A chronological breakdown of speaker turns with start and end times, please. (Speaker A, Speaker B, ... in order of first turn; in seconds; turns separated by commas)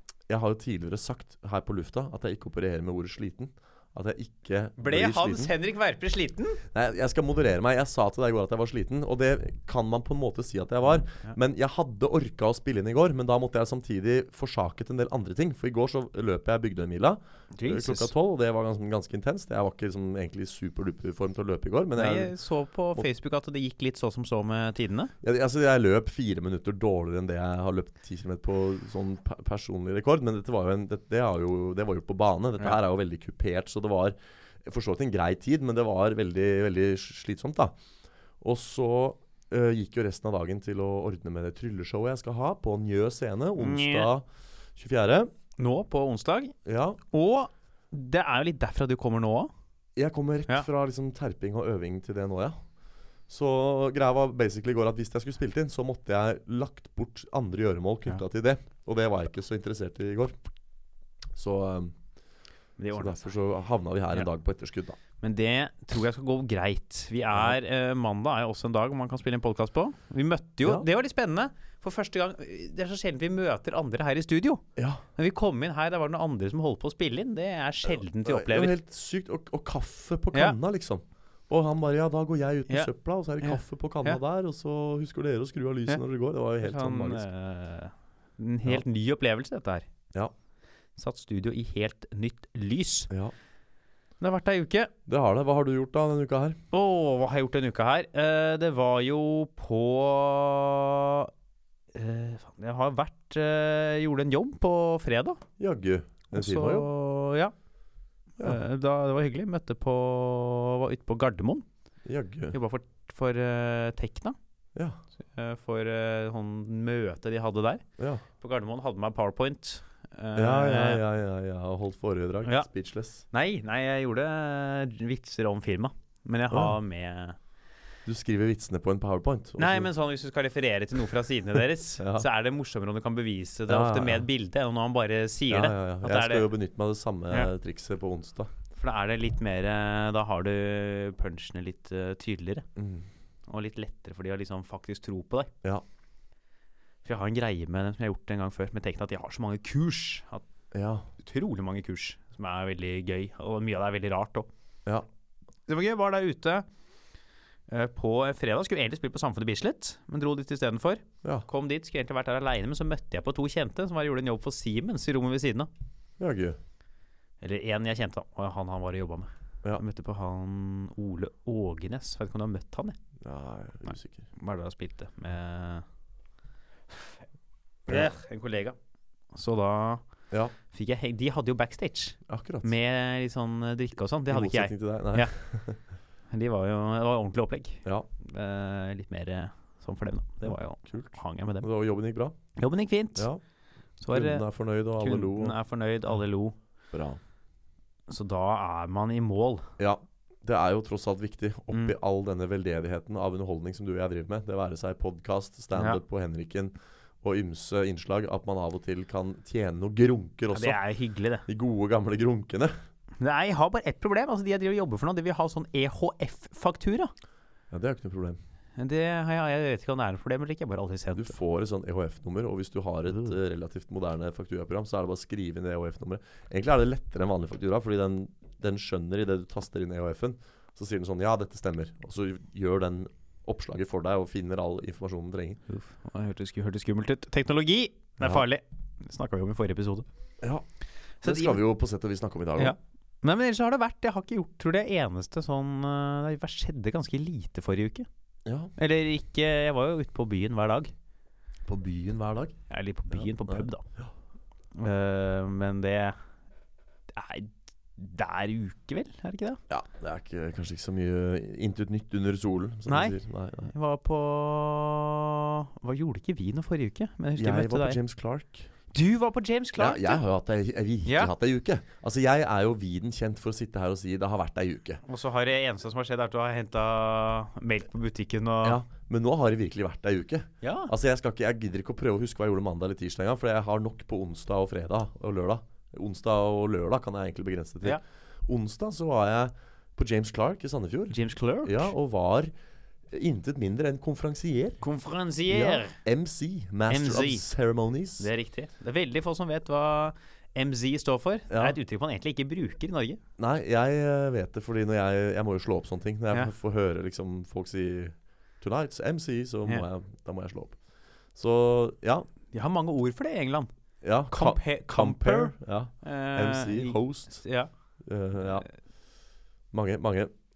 Speaker A: 0.3-5.5, Speaker B: 4.8-6.6, Speaker A: 6.7-22.3, Speaker B: 17.5-18.1, Speaker B: 22.0-25.1, Speaker A: 25.2-37.7, Speaker A: 38.4-45.3, Speaker B: 43.6-44.1, Speaker B: 45.6-46.5, Speaker A: 46.6-47.0, Speaker B: 47.1-49.5, Speaker A: 50.0-52.6, Speaker A: 53.3-60.4, Speaker A: 61.3-61.9, Speaker B: 62.8-63.3, Speaker A: 62.9-65.0, Speaker B: 65.2-74.6, Speaker A: 74.8-75.0, Speaker B: 75.2-78.7, Speaker A: 78.2-87.2, Speaker B: 83.4-84.2, Speaker B: 86.6-89.9, Speaker B: 91.0-93.1, Speaker B: 94.2-94.9, Speaker A: 95.1-96.6, Speaker B: 96.7-101.3, Speaker B: 101.9-105.4, Speaker A: 105.6-106.9, Speaker B: 106.3-107.5, Speaker B: 108.4-111.6, Speaker A: 112.0-112.5, Speaker B: 112.5-114.4, Speaker B: 115.3-117.8, Speaker A: 118.0-118.2, Speaker B: 118.4-121.0, Speaker A: 120.3-123.2, Speaker B: 123.3-127.4, Speaker A: 126.5-126.8, Speaker A: 128.1-129.9, Speaker B: 129.6-136.5, Speaker A: 132.0-132.2, Speaker A: 133.7-134.3, Speaker A: 135.5-138.5, Speaker B: 138.8-142.7, Speaker A: 142.8-143.1, Speaker B: 143.5-145.5, Speaker B: 147.0-150.4, Speaker A: 150.7-151.1, Speaker B: 151.2-154.5, Speaker B: 155.7-156.7, Speaker B: 157.7-165.7, Speaker A: 166.2-166.6, Speaker B: 167.4-172.9, Speaker A: 173.2-174.3, Speaker B: 174.4-175.8, Speaker B: 177.9-178.8, Speaker A: 177.9-178.1, Speaker B: 179.3-180.0, Speaker B: 180.7-185.3, Speaker A: 182.3-182.7, Speaker A: 184.3-185.8, Speaker B: 186.3-191.7, Speaker A: 190.4-192.3, Speaker B: 192.6-193.3, Speaker A: 193.2-193.4, Speaker B: 194.0-194.4, Speaker A: 194.1-195.6, Speaker B: 195.0-196.6, Speaker A: 196.9-197.2, Speaker B: 198.1-199.6, Speaker A: 199.8-210.8, Speaker B: 205.7-206.0, Speaker B: 210.5-211.5, Speaker A: 211.5-212.7, Speaker B: 213.2-217.1, Speaker A: 217.7-218.4, Speaker B: 218.8-221.3, Speaker A: 221.2-235.6, Speaker B: 235.7-240.1, Speaker B: 241.2-241.6, Speaker A: 241.2-242.8, Speaker B: 242.6-248.1, Speaker A: 248.4-248.7, Speaker B: 248.8-250.9, Speaker A: 251.6-252.6, Speaker B: 252.7-253.8, Speaker A: 253.1-254.1, Speaker B: 254.8-256.2, Speaker B: 257.1-259.6, Speaker A: 259.7-263.7, Speaker B: 262.9-268.0, Speaker A: 267.4-268.7, Speaker B: 268.9-270.2, Speaker A: 269.8-275.0, Speaker B: 271.0-271.3, Speaker B: 275.1-278.8, Speaker A: 278.6-292.5, Speaker B: 280.6-280.9, Speaker B: 291.1-291.9, Speaker A: 293.1-294.8, Speaker B: 294.8-296.0, Speaker A: 295.5-298.3, Speaker B: 296.9-297.4, Speaker B: 298.2-303.2, Speaker A: 301.5-301.8, Speaker A: 303.4-310.8, Speaker A: 311.4-312.3, Speaker B: 312.5-313.7, Speaker A: 314.0-317.4, Speaker B: 314.3-317.7, Speaker A: 318.0-318.7, Speaker A: 319.7-320.3